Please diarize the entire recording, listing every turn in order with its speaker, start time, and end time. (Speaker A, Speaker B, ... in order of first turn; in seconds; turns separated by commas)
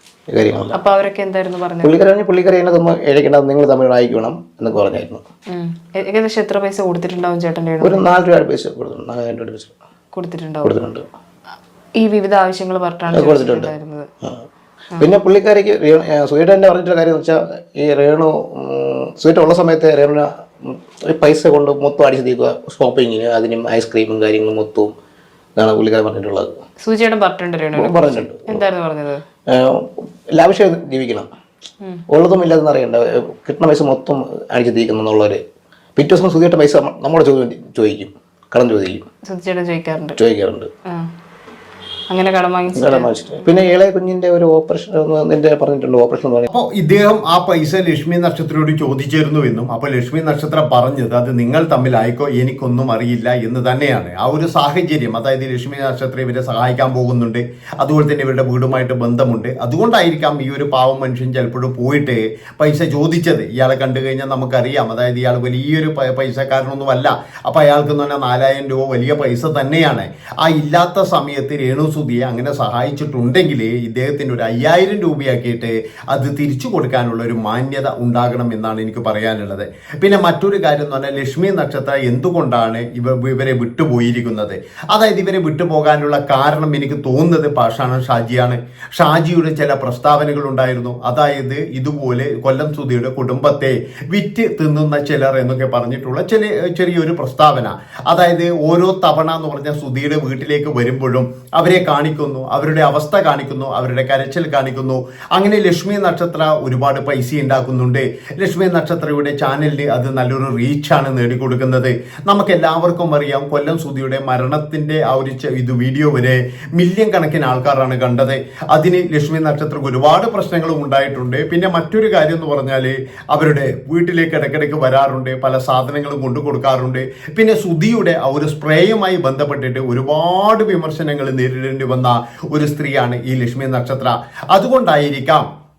Speaker A: 0.3-0.8, Speaker B: 0.7-2.0, Speaker A: 1.8-5.2, Speaker B: 5.5-8.1, Speaker A: 7.8-9.8, Speaker B: 10.1-10.8, Speaker A: 10.6-11.1, Speaker B: 12.0-14.1, Speaker A: 13.1-13.7, Speaker A: 15.0-24.9, Speaker A: 25.6-26.6, Speaker B: 26.8-29.2, Speaker A: 27.8-28.6, Speaker A: 29.5-31.3, Speaker A: 32.1-35.4, Speaker A: 36.0-39.1, Speaker B: 39.2-40.2, Speaker A: 40.2-40.7, Speaker B: 42.1-43.6, Speaker A: 42.8-46.5, Speaker C: 46.5-135.4